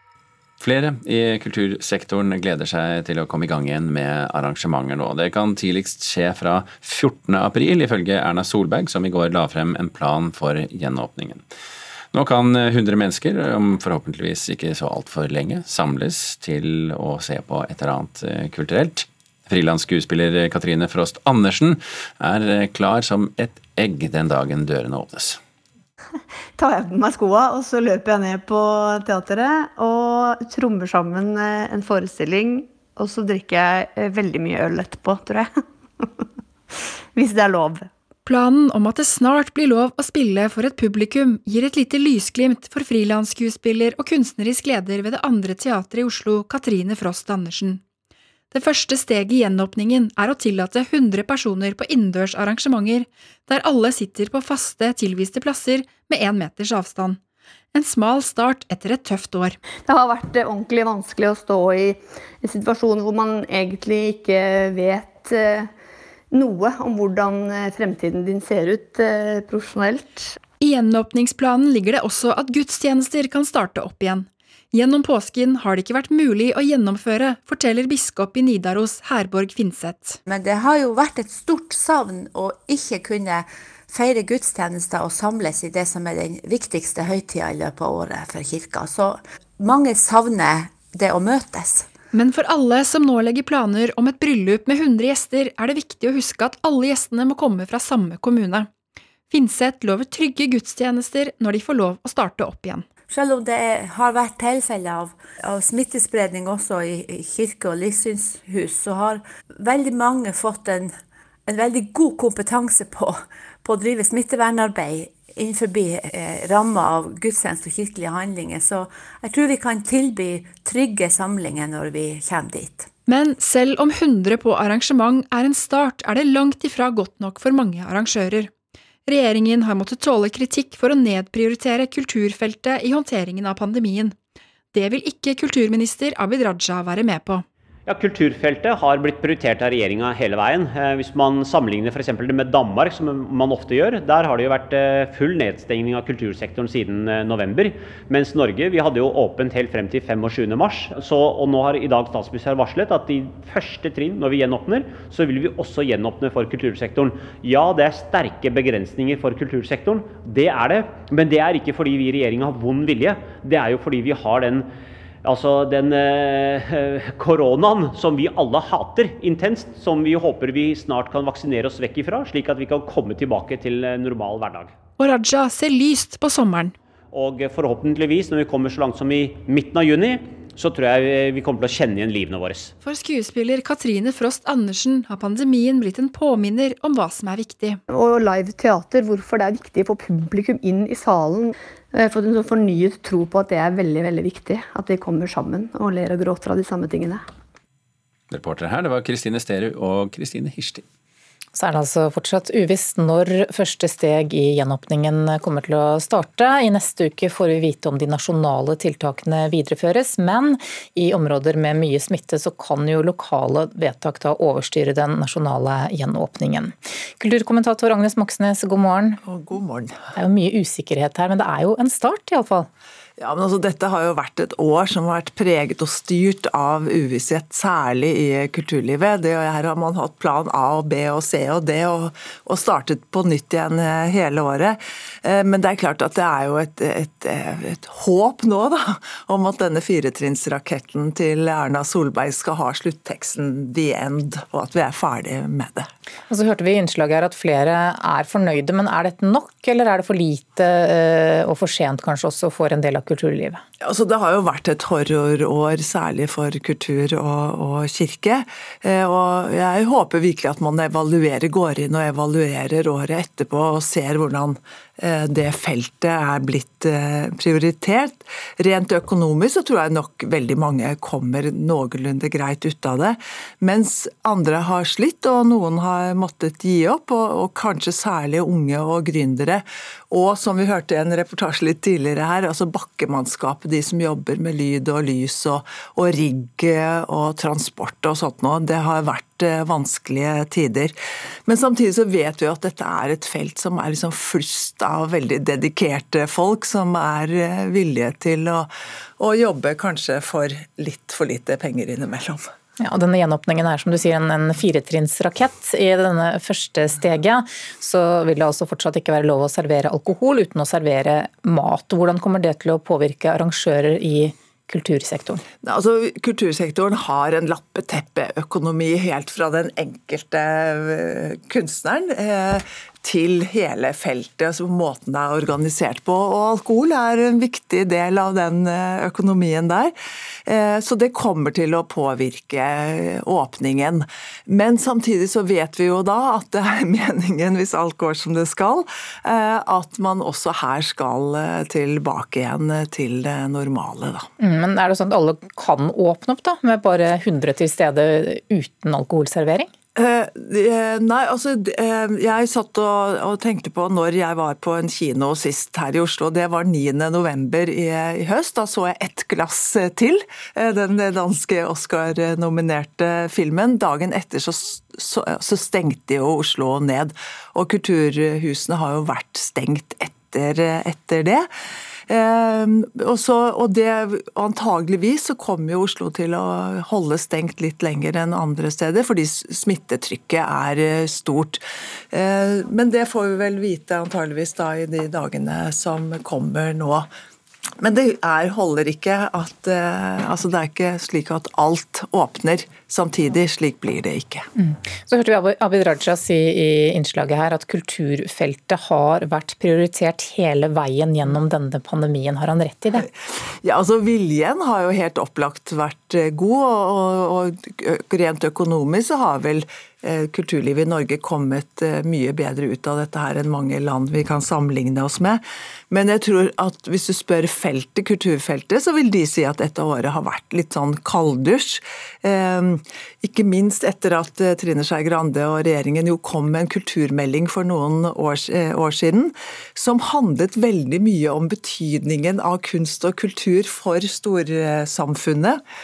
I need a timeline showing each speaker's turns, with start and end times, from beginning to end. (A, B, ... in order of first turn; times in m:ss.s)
0:00.6-0:11.4 A
0:12.1-0:25.4 A
0:26.6-0:36.1 B
0:37.1-0:37.9 B
0:38.3-0:47.8 C
0:48.5-0:57.2 C
0:57.7-0:59.6 C
0:59.9-1:05.7 B
1:06.3-1:10.4 B
1:10.6-1:20.2 C
1:20.3-1:31.9 D
1:32.1-1:38.7 C
1:39.3-1:42.9 C
1:43.1-1:50.9 D
1:51.5-2:02.9 D
2:03.1-2:08.5 C
2:09.1-2:14.2 C
2:14.7-2:17.5 C
2:17.9-2:44.7 E
2:45.2-2:54.7 E
2:55.0-2:56.8 C
2:57.1-3:02.7 E
3:02.8-3:07.8 C
3:07.9-3:17.2 B
3:18.3-3:20.8 A
3:21.5-3:39.2 F
3:39.3-3:40.0 G
3:40.2-3:42.7 F
3:43.2-4:05.9 G
4:06.3-4:13.6 F
4:13.8-4:50.9 G
4:51.5-4:58.7 G
4:59.2-5:02.4 G
5:02.8-5:15.4 F
5:15.6-5:29.9 G
5:30.5-5:44.3 G
5:44.4-5:49.7 F
5:50.0-6:11.5 G
6:12.1-6:21.6 G
6:22.1-6:27.1 G
6:27.8-6:34.5 G
6:34.6-6:43.1 F
6:43.6-7:15.6 G